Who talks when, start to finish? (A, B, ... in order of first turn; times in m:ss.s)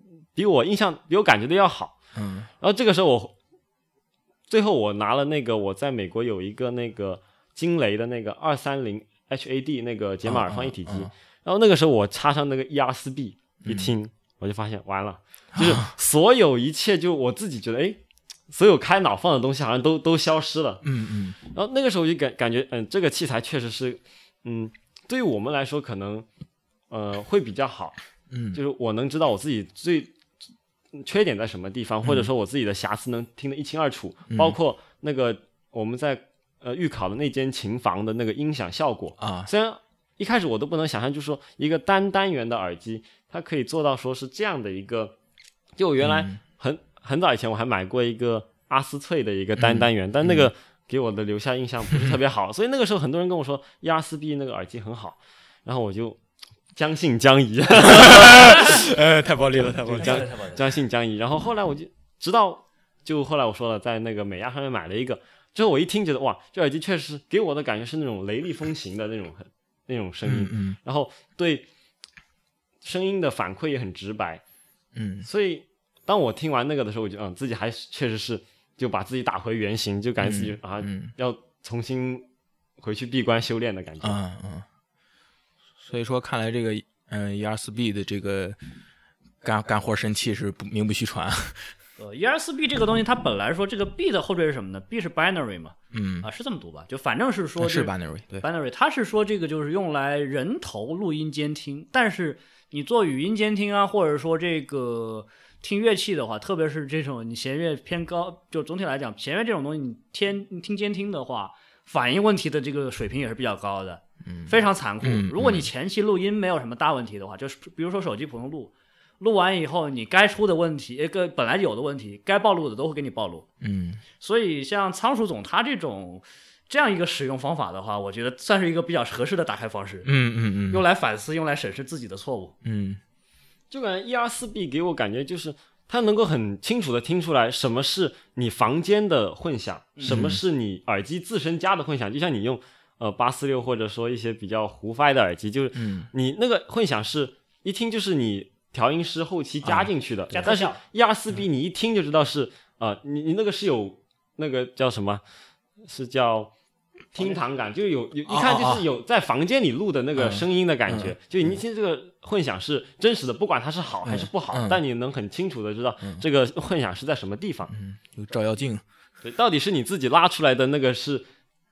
0:00.4-0:02.0 A
0:02.1-0:02.5 B
0:02.6-0:03.3 A
0:04.5-0:18.0 A
0:10.3-0:11.1 B
0:13.6-0:13.9 B
0:15.6-0:15.9 B
0:18.5-0:20.9 A
0:20.8-0:21.4 B
0:21.4-0:26.3 A
0:26.9-0:28.0 A
0:28.3-0:28.6 B
0:28.5-0:30.2 A
0:30.9-0:45.2 A
0:34.3-0:34.6 B
0:39.2-0:39.5 B
0:45.8-0:56.2 A
0:46.0-0:46.4 B
0:49.6-0:50.5 B
0:56.8-0:58.8 A
0:57.8-1:00.3 B
0:59.4-1:00.6 C
0:59.9-1:11.7 A
1:10.2-1:10.8 B
1:12.8-1:14.4 A
1:15.0-1:15.3 B
1:15.2-1:22.3 A
1:20.2-1:21.1 B
1:22.8-1:24.2 A
1:24.0-1:24.7 B
1:25.8-1:28.6 B
1:29.4-1:31.8 B
1:32.0-2:03.5 C
1:35.9-1:36.3 B
1:37.6-1:38.5 B
1:54.2-1:55.7 B
2:03.6-2:04.0 B
2:04.2-2:10.1 C
2:10.0-2:10.8 B
2:10.7-2:12.5 C
2:12.6-2:13.0 B
2:13.7-2:35.2 A
2:20.0-2:20.2 C
2:20.0-2:20.4 B
2:25.7-2:26.1 B
2:29.6-2:30.5 B
2:30.3-2:30.8 C
2:35.8-2:36.5 A
2:37.1-2:47.7 A
2:38.3-2:38.8 B
2:40.2-2:41.5 B
2:44.0-2:44.8 B
2:47.7-2:48.8 B
2:49.2-2:51.3 A